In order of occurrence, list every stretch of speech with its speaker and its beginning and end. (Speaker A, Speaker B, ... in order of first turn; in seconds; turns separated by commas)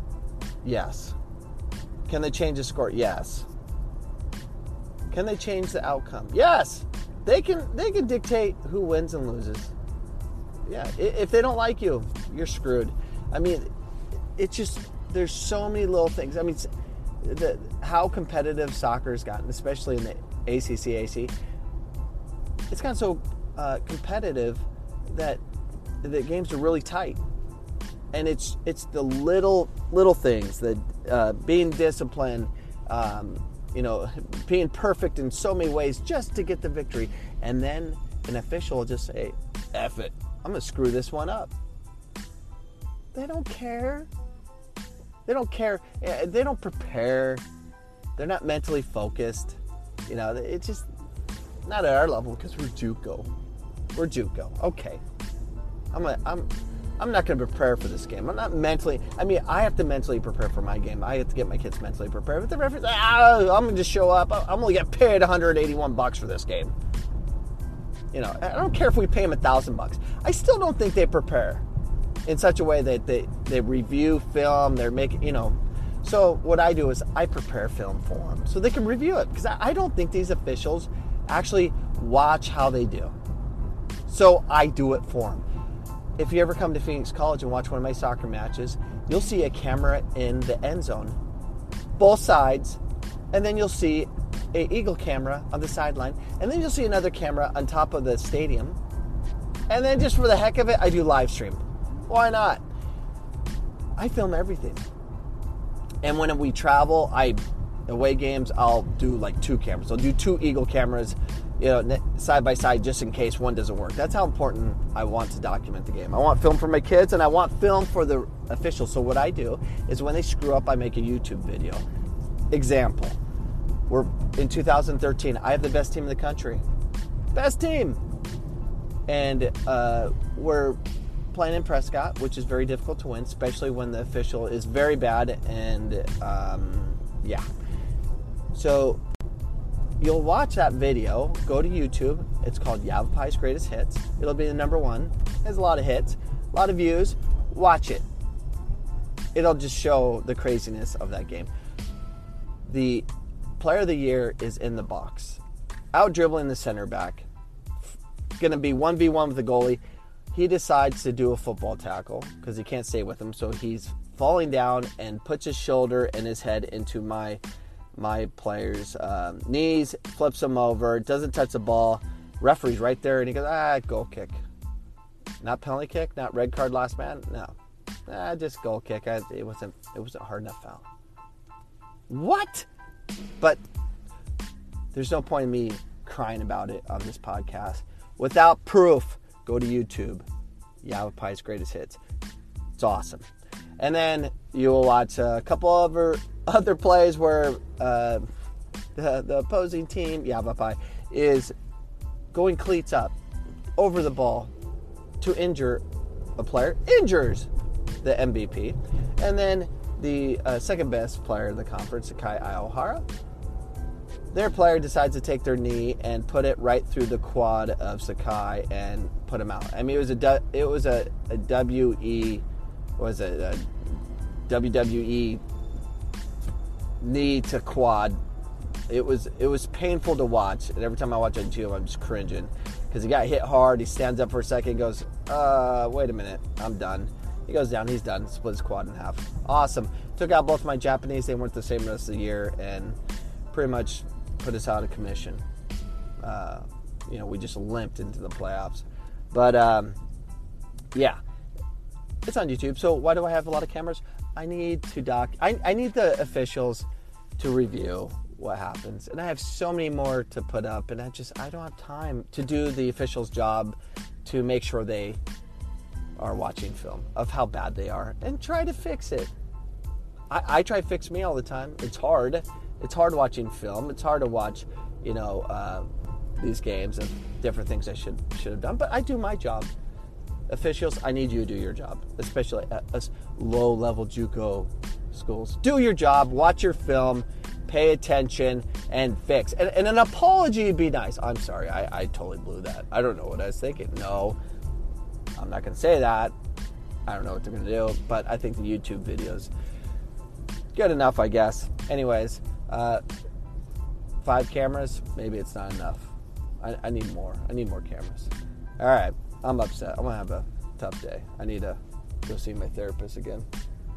Speaker A: 0.6-1.2, Speaker A: 2.1-3.5, Speaker A: 5.1-9.7, Speaker A: 10.7-13.7, Speaker A: 14.4-16.7, Speaker A: 17.2-21.3, Speaker A: 22.7-25.4, Speaker A: 26.0-27.2, Speaker A: 28.1-41.5, Speaker A: 43.1-44.1, Speaker A: 45.3-47.4, Speaker A: 48.2-50.9, Speaker A: 51.6-53.3, Speaker A: 53.9-55.0, Speaker A: 55.9-66.7, Speaker A: 68.1-71.7, Speaker A: 72.2-83.1, Speaker A: 84.1-85.5, Speaker A: 86.2-91.2, Speaker A: 92.0-92.8, Speaker A: 93.3-98.8, Speaker A: 99.7-102.6, Speaker A: 104.0-104.8, Speaker A: 106.0-121.8, Speaker A: 122.5-123.2, Speaker A: 123.9-126.6, Speaker A: 127.3-128.0, Speaker A: 129.1-130.8, Speaker A: 131.3-137.4, Speaker A: 138.5-139.0, Speaker A: 140.0-148.1, Speaker A: 149.3-151.5, Speaker A: 152.7-153.1, Speaker A: 153.6-155.4, Speaker A: 155.9-157.3, Speaker A: 158.4-159.8, Speaker A: 160.3-167.4, Speaker A: 167.9-174.4, Speaker A: 175.4-177.6, Speaker A: 178.1-180.8, Speaker A: 182.1-182.7, Speaker A: 184.9-190.2, Speaker A: 190.8-192.0, Speaker A: 192.8-193.2, Speaker A: 193.8-198.3, Speaker A: 198.9-201.5, Speaker A: 202.3-203.1, Speaker A: 203.8-204.5, Speaker A: 205.2-205.8, Speaker A: 206.4-207.5, Speaker A: 208.0-213.1, Speaker A: 214.3-222.4, Speaker A: 223.0-223.7, Speaker A: 224.5-225.4, Speaker A: 227.0-228.2, Speaker A: 228.9-243.0, Speaker A: 243.5-245.4, Speaker A: 246.2-250.0, Speaker A: 250.9-251.2, Speaker A: 252.2-256.9, Speaker A: 257.4-265.2, Speaker A: 266.2-269.3, Speaker A: 270.3-279.7, Speaker A: 280.5-294.4, Speaker A: 295.4-296.3, Speaker A: 297.1-299.5, Speaker A: 300.7-303.0, Speaker A: 304.2-313.5